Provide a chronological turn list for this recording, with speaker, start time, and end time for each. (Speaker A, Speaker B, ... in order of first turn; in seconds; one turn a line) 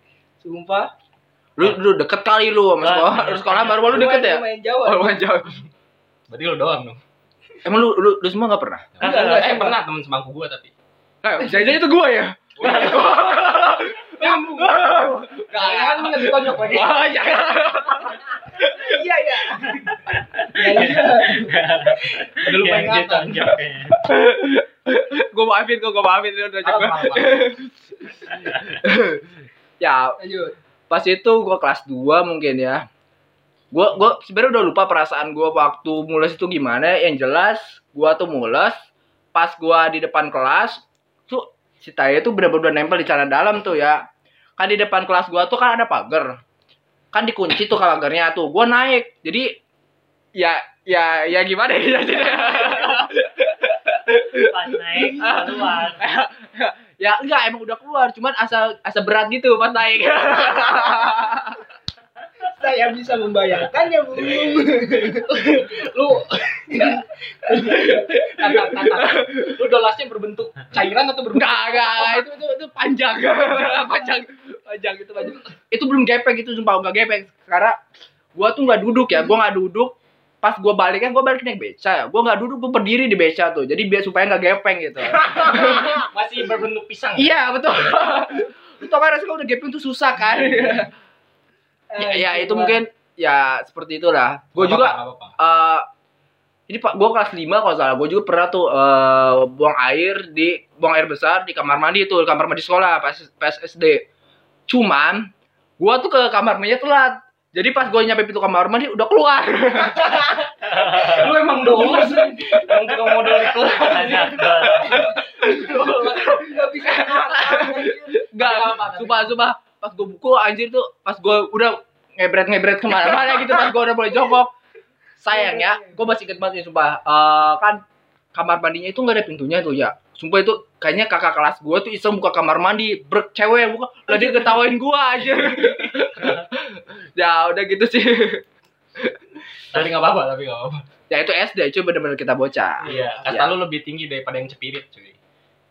Speaker A: 0.4-0.9
Speaker B: 1.6-5.6
Speaker C: 2.8-3.5
Speaker D: 3.2-4.1
Speaker A: 3.9-5.2
Speaker D: 6.3-7.0
Speaker B: 7.6-8.9
Speaker D: 8.9-10.7
Speaker A: 9.0-9.8
Speaker C: 9.0-9.5
Speaker B: 11.2-18.9
Speaker D: 12.6-13.2
Speaker C: 12.6-13.1
Speaker A: 14.2-14.9
Speaker D: 14.2-14.7
Speaker A: 15.5-16.9
Speaker D: 15.5-17.0
Speaker A: 18.6-20.0
Speaker C: 19.7-24.0
Speaker A: 20.5-21.8
Speaker D: 22.4-23.5
Speaker B: 23.9-29.3
Speaker D: 26.6-27.5
Speaker B: 29.8-30.2
Speaker A: 30.2-30.6
Speaker B: 30.9-32.9
Speaker B: 33.7-38.8
Speaker B: 39.3-44.0
Speaker B: 44.6-46.4
Speaker B: 47.1-49.5
Speaker B: 50.4-61.6
Speaker C: 54.5-56.0
Speaker A: 55.0-55.5
Speaker A: 60.5-61.0
Speaker A: 62.6-65.7
Speaker D: 65.3-67.0
Speaker A: 66.7-68.1
Speaker B: 67.6-69.5
Speaker D: 68.3-71.9
Speaker B: 71.3-77.8
Speaker A: 71.9-72.4
Speaker B: 78.3-86.0
Speaker A: 85.2-86.0
Speaker D: 85.4-87.3
Speaker B: 87.2-90.9
Speaker A: 91.9-92.8
Speaker B: 92.0-95.9
Speaker D: 94.6-95.4
Speaker B: 96.7-104.0
Speaker B: 104.7-110.3
Speaker A: 110.0-110.4
Speaker C: 110.6-111.4
Speaker D: 110.7-116.3
Speaker A: 111.6-113.0
Speaker C: 113.8-115.1
Speaker A: 114.8-118.2
Speaker B: 115.4-124.5
Speaker D: 118.4-119.4
Speaker B: 125.2-127.8
Speaker A: 125.3-126.0
Speaker B: 128.3-138.4
Speaker A: 134.1-134.6
Speaker D: 139.7-140.8
Speaker C: 139.7-140.0
Speaker B: 141.1-143.5
Speaker A: 142.8-143.3
Speaker D: 142.8-145.2